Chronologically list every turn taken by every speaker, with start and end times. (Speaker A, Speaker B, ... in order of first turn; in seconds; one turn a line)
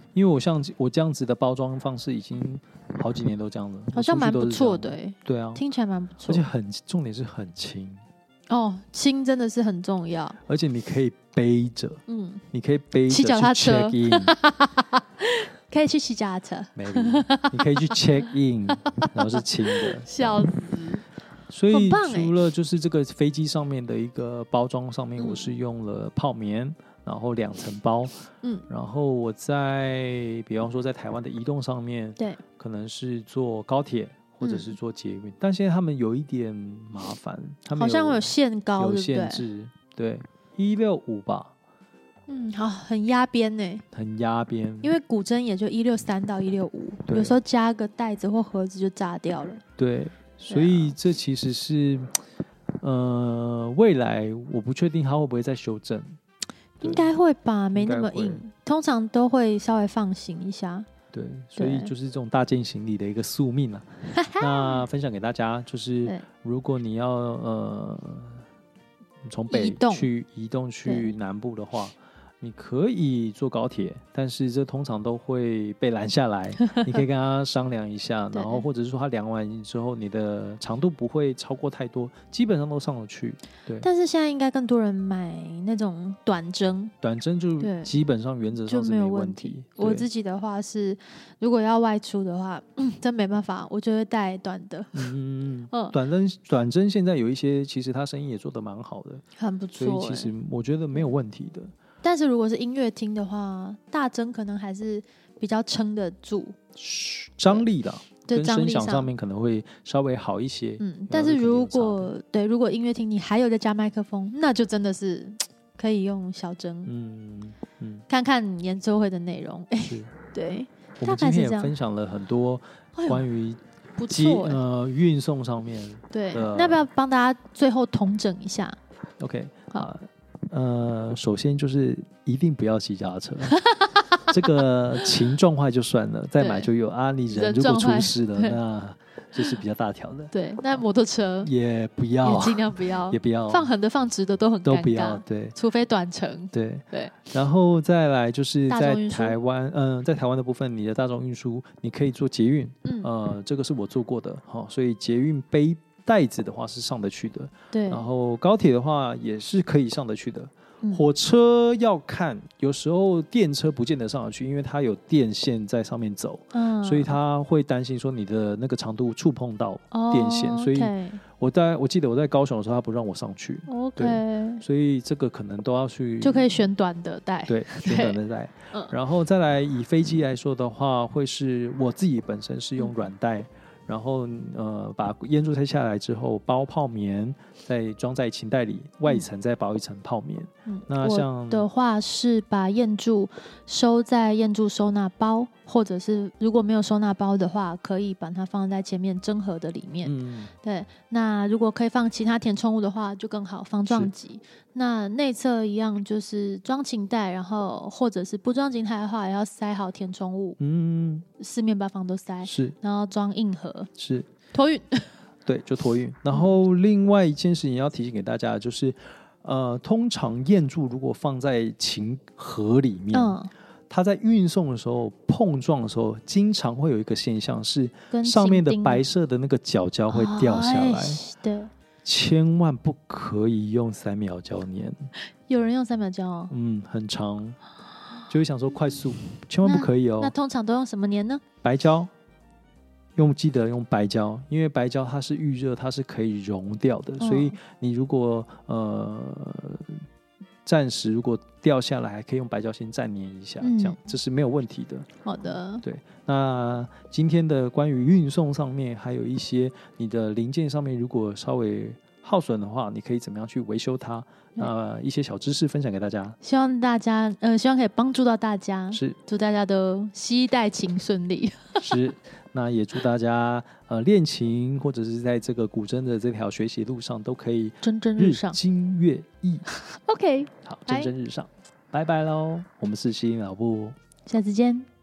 Speaker A: 0.1-5.6
Speaker B: 3.9-6.4
Speaker A: 6.2-8.0
Speaker B: 8.5-10.4
Speaker A: 10.4-14.3
Speaker B: 12.1-12.4
Speaker B: 13.1-18.0
Speaker A: 16.7-20.5
Speaker B: 18.8-19.1
Speaker B: 19.6-21.0
Speaker A: 21.5-41.5
Speaker B: 21.7-22.3
Speaker B: 25.2-25.5
Speaker B: 34.4-34.7
Speaker B: 37.7-39.4
Speaker B: 42.3-43.8
Speaker A: 43.9-44.9
Speaker B: 44.8-49.6
Speaker A: 47.1-47.4
Speaker A: 49.8-52.1
Speaker B: 50.5-50.9
Speaker A: 52.8-56.2
Speaker A: 56.8-57.1
Speaker B: 56.8-60.9
Speaker A: 57.7-58.4
Speaker A: 61.1-68.4
Speaker B: 61.5-61.9
Speaker B: 64.1-64.8
Speaker A: 69.2-83.9
Speaker B: 69.5-70.1
Speaker B: 70.8-71.1
Speaker B: 78.3-78.6
Speaker B: 83.8-86.9
Speaker A: 87.0-90.1
Speaker B: 87.6-87.9
Speaker B: 88.6-95.1
Speaker A: 94.9-99.2
Speaker B: 95.7-96.0
Speaker B: 99.4-100.3
Speaker A: 99.8-101.7
Speaker B: 102.0-106.6
Speaker A: 106.8-112.1
Speaker B: 108.3-109.1
Speaker B: 110.8-116.9
Speaker A: 116.8-118.0
Speaker B: 118.1-121.7
Speaker A: 119.8-120.1
Speaker A: 121.0-126.9
Speaker B: 123.0-123.2
Speaker B: 124.0-124.6
Speaker B: 126.1-128.8
Speaker A: 129.2-133.6
Speaker B: 133.5-134.2
Speaker A: 134.3-140.8
Speaker B: 136.4-136.7
Speaker B: 137.3-138.6
Speaker B: 140.3-141.5
Speaker A: 141.4-143.7
Speaker B: 142.2-147.2
Speaker A: 144.6-145.6
Speaker A: 146.5-176.7
Speaker B: 148.7-149.4
Speaker B: 157.7-158.1
Speaker B: 166.5-167.2
Speaker B: 169.9-171.2
Speaker B: 173.7-174.6
Speaker B: 176.2-178.2
Speaker A: 177.5-191.7
Speaker B: 190.7-210.6
Speaker A: 200.0-200.5
Speaker A: 203.8-204.1
Speaker A: 210.6-211.2
Speaker B: 211.4-213.9
Speaker A: 212.4-212.7
Speaker A: 214.0-214.3
Speaker B: 214.5-215.2
Speaker A: 215.4-223.4
Speaker B: 223.1-223.5
Speaker A: 223.9-231.2
Speaker B: 228.1-229.0
Speaker B: 230.1-231.7
Speaker A: 232.0-235.1
Speaker B: 235.5-236.5
Speaker A: 236.5-237.6
Speaker A: 238.3-240.3
Speaker B: 239.6-241.4
Speaker A: 241.6-242.1
Speaker A: 243.2-250.0
Speaker B: 247.2-247.6
Speaker A: 250.6-255.1
Speaker B: 253.6-254.0
Speaker B: 255.2-255.8
Speaker A: 255.8-266.4
Speaker B: 266.4-271.9
Speaker A: 271.8-279.6
Speaker B: 277.8-278.6
Speaker B: 279.9-281.1
Speaker A: 280.6-283.9
Speaker B: 284.2-284.9